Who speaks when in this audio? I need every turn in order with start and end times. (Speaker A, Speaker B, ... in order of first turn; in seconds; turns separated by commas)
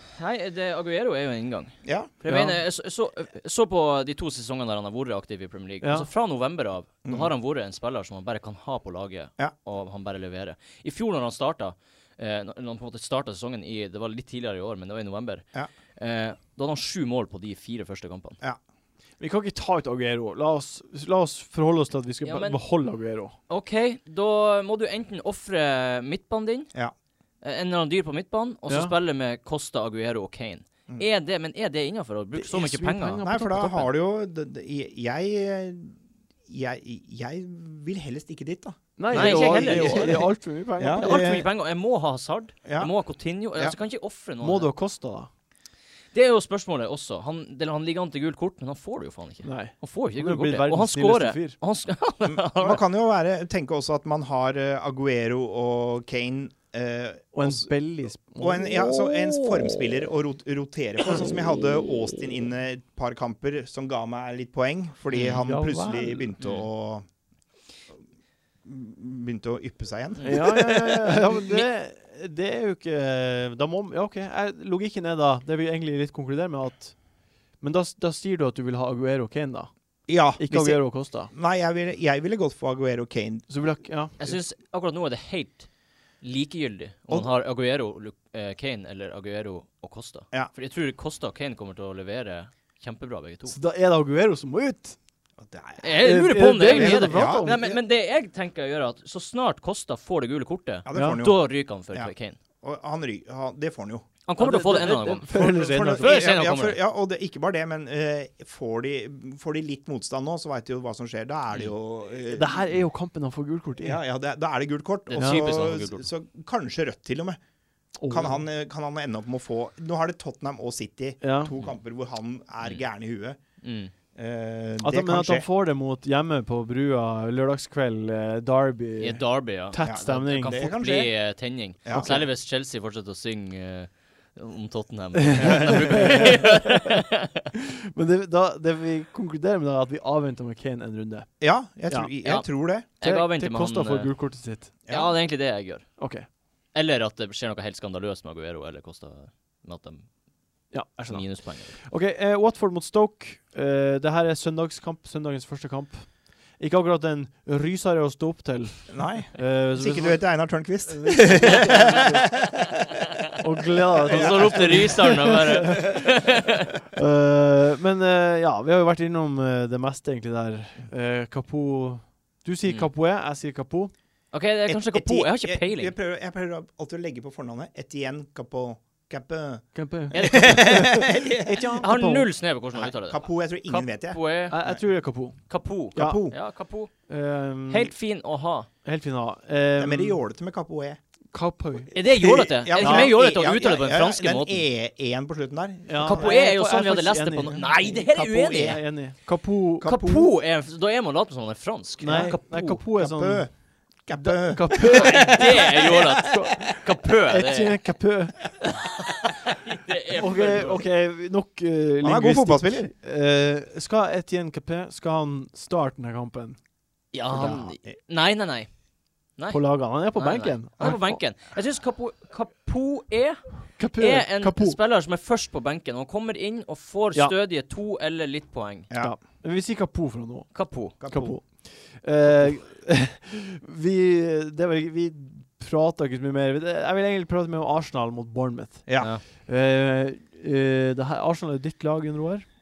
Speaker A: 0.1-18.4, Speaker B: 1.8-2.1, Speaker C: 2.2-2.6, Speaker C: 5.8-6.1, Speaker B: 7.0-7.3, Speaker C: 19.2-23.3, Speaker A: 22.2-22.6, Speaker A: 23.5-26.7, Speaker A: 27.4-33.2, Speaker C: 28.7-28.9, Speaker C: 32.3-33.9, Speaker B: 33.2-41.5, Speaker C: 39.0-41.5, Speaker A: 39.1-40.3, Speaker A: 41.0-44.7, Speaker B: 42.6-42.9, Speaker C: 44.4-45.3, Speaker A: 46.1-52.8, Speaker C: 49.4-51.5, Speaker B: 52.3-57.7, Speaker C: 57.3-59.1, Speaker B: 58.3-67.0, Speaker A: 65.1-65.4, Speaker C: 65.4-66.3, Speaker A: 66.4-66.7, Speaker B: 68.6-71.2, Speaker C: 70.2-77.0, Speaker C: 77.6-79.7, Speaker B: 80.1-83.5, Speaker C: 80.3-81.3, Speaker C: 83.5-84.2, Speaker A: 84.2-85.7, Speaker A: 86.2-93.5, Speaker C: 93.5-95.0, Speaker B: 95.4-96.0, Speaker A: 95.8-102.3, Speaker C: 96.0-97.6, Speaker B: 96.6-97.8, Speaker B: 100.8-104.1, Speaker C: 100.9-101.2, Speaker A: 104.2-106.8, Speaker C: 104.4-106.3, Speaker B: 105.3-112.7, Speaker C: 112.3-114.0, Speaker B: 113.8-117.4, Speaker A: 115.1-116.1, Speaker C: 115.2-115.5, Speaker C: 118.0-118.4, Speaker B: 118.1-123.4, Speaker C: 121.2-121.5, Speaker A: 123.6-123.9, Speaker B: 124.1-125.5, Speaker C: 124.8-130.7, Speaker A: 129.0-137.4, Speaker B: 129.8-131.1, Speaker B: 131.8-132.3, Speaker C: 131.9-132.2, Speaker C: 135.2-136.6, Speaker C: 137.5-141.3, Speaker B: 141.4-142.8, Speaker A: 143.0-144.1, Speaker C: 143.0-144.7, Speaker B: 144.9-145.1, Speaker A: 144.9-145.9, Speaker C: 146.0-146.2, Speaker A: 146.7-150.1, Speaker C: 150.7-162.3, Speaker A: 151.1-151.8, Speaker B: 158.9-162.3, Speaker A: 161.5-161.8, Speaker C: 163.4-166.0, Speaker A: 164.0-166.7, Speaker B: 164.1-165.1, Speaker C: 166.9-173.9, Speaker A: 174.3-175.9, Speaker B: 174.7-181.8, Speaker C: 179.7-182.3, Speaker A: 180.1-181.1, Speaker A: 181.8-184.6, Speaker B: 182.7-184.8, Speaker C: 184.5-185.4, Speaker A: 185.5-186.9, Speaker C: 185.9-186.2, Speaker B: 185.9-186.4, Speaker C: 187.1-187.9, Speaker A: 187.7-188.7, Speaker C: 188.8-190.2, Speaker B: 189.8-191.0, Speaker C: 191.3-191.9, Speaker A: 191.9-194.6, Speaker B: 191.9-196.3, Speaker C: 192.8-193.2, Speaker C: 195.9-198.0, Speaker A: 196.0-198.9, Speaker B: 197.8-198.8, Speaker C: 198.6-200.0, Speaker B: 199.8-200.3, Speaker A: 199.8-202.8, Speaker C: 202.0-203.5, Speaker B: 202.0-203.5, Speaker B: 204.0-206.3, Speaker C: 204.1-208.6, Speaker A: 204.8-207.8, Speaker A: 208.6-210.8, Speaker C: 210.2-216.6, Speaker B: 212.0-212.9, Speaker A: 217.1-218.7, Speaker C: 217.3-217.7, Speaker B: 217.3-217.9, Speaker A: 219.4-228.9, Speaker C: 219.5-221.2, Speaker C: 223.8-224.8, Speaker B: 228.9-229.1, Speaker C: 228.9-242.4, Speaker A: 230.5-231.0, Speaker B: 231.0-231.4, Speaker B: 238.8-239.1